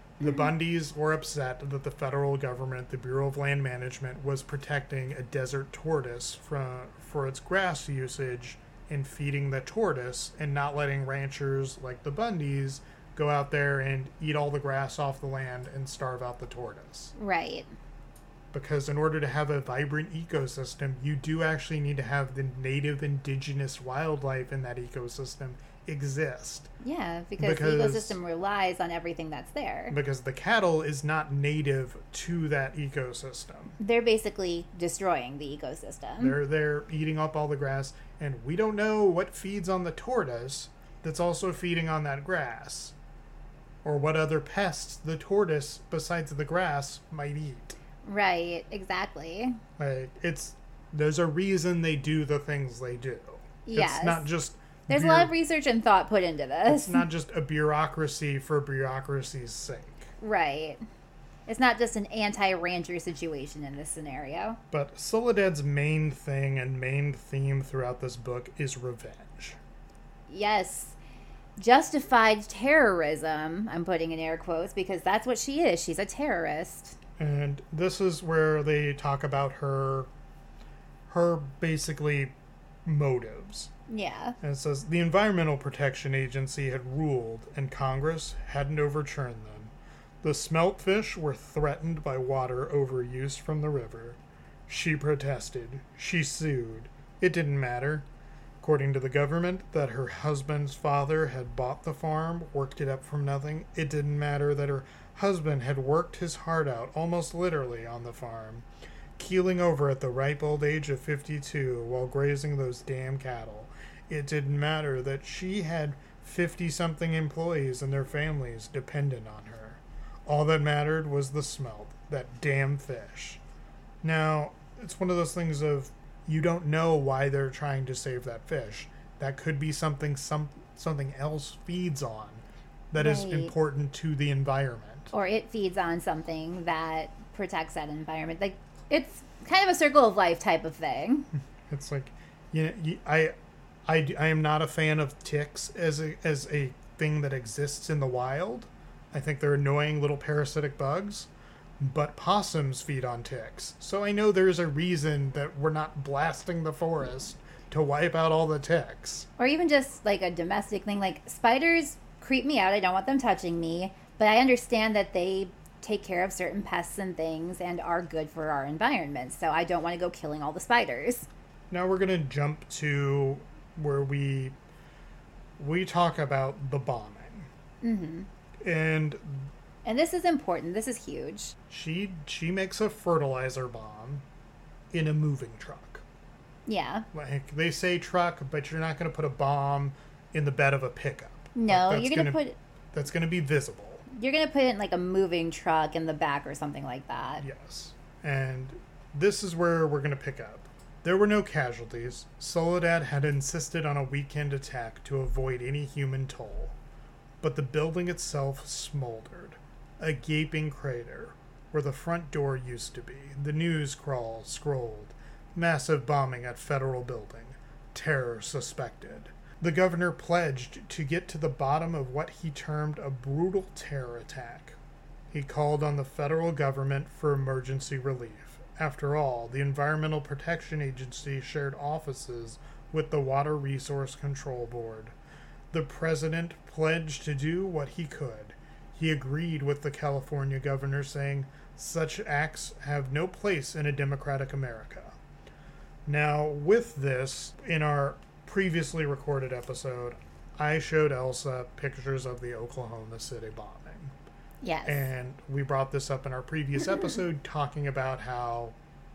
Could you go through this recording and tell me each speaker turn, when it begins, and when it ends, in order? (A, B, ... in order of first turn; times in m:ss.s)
0:00.2-0:17.2 A
0:00.2-0:00.5 B
0:17.2-0:17.7 B
0:18.5-0:26.7 A
0:26.8-0:30.0 B
0:27.4-0:28.2 A
0:29.9-0:33.8 A
0:33.8-0:36.4 B
0:36.2-0:43.0 A
0:43.8-0:47.8 A
0:48.0-0:49.6 B
0:49.8-0:55.3 A
0:53.6-0:54.3 B
0:54.9-0:57.0 B
0:56.7-1:00.1 A
1:00.2-1:00.8 B
1:01.5-1:04.6 B
1:04.7-1:09.6 A
1:10.3-1:11.0 B
1:11.6-1:17.0 B
1:17.2-1:20.1 A
1:21.1-1:23.7 A
1:23.9-1:24.4 B
1:24.4-1:38.1 A
1:38.6-1:48.7 A
1:49.2-2:03.4 A
2:04.0-2:15.1 A
2:13.0-2:13.5 B
2:15.1-2:21.3 B
2:21.7-2:23.3 A
2:23.9-2:39.3 A
2:39.4-2:51.3 B
2:51.7-2:54.6 A
2:55.6-2:57.5 A
2:57.8-2:58.3 B
2:58.6-2:59.5 A
2:59.8-3:01.6 B
3:01.7-3:04.2 A
3:04.9-3:06.0 A
3:06.7-3:07.1 B
3:07.1-3:12.4 A
3:11.6-3:12.6 B
3:12.9-3:14.0 A
3:14.1-3:17.4 B
3:17.4-3:26.8 A
3:27.4-3:44.8 A
3:45.3-3:55.2 A
3:55.7-4:05.2 A
4:06.1-4:14.1 A
4:14.6-4:15.0 B
4:14.8-4:18.8 A